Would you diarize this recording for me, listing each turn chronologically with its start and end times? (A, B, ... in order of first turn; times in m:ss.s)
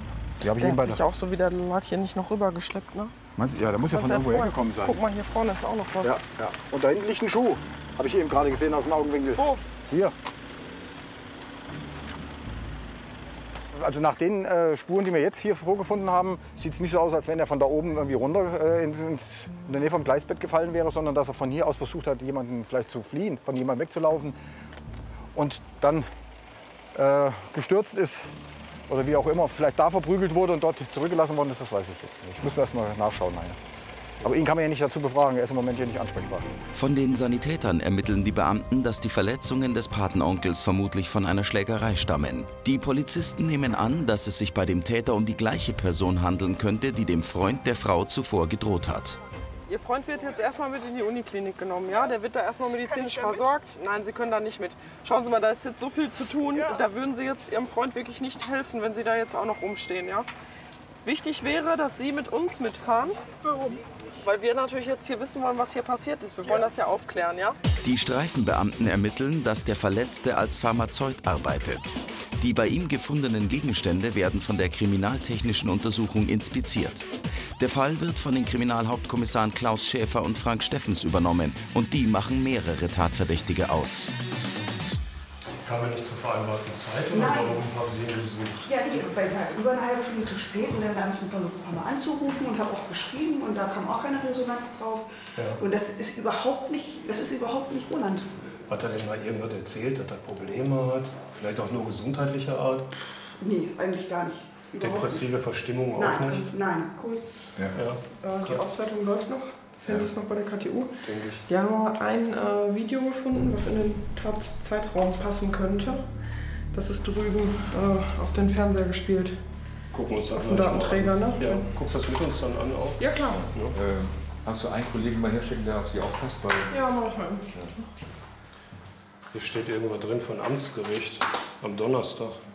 0:00.4-0:01.0 A
0:00.5-0:03.1 B
0:03.4-0:05.0 A
0:03.9-0:06.2 B
0:06.0-0:10.1 A
0:09.4-0:09.6 B
0:13.7-0:24.4 A
0:25.3-0:26.1 A
0:26.9-0:28.3 A
0:28.9-0:33.6 A
0:34.2-0:36.5 A
0:36.7-0:49.2 C
0:49.7-1:00.3 B
0:52.8-0:53.5 D
0:56.5-0:56.8 D
1:01.0-1:07.6 B
1:07.8-1:17.1 C
1:17.6-1:24.1 C
1:25.6-1:28.6 E
1:27.1-1:27.6 D
1:28.6-1:38.3 D
1:38.7-1:42.9 E
1:43.4-1:45.3 D
1:44.8-1:46.4 E
1:45.9-1:46.9 D
1:47.0-1:47.5 B
1:47.7-1:48.6 E
1:48.2-1:50.9 B
1:51.0-1:51.4 E
1:51.4-1:56.0 B
1:56.7-1:59.4 B
1:59.9-2:03.8 E
2:00.3-2:01.7 B
2:03.0-2:03.4 B
2:03.7-2:06.8 F
2:06.7-2:07.9 B
2:09.3-2:12.4 E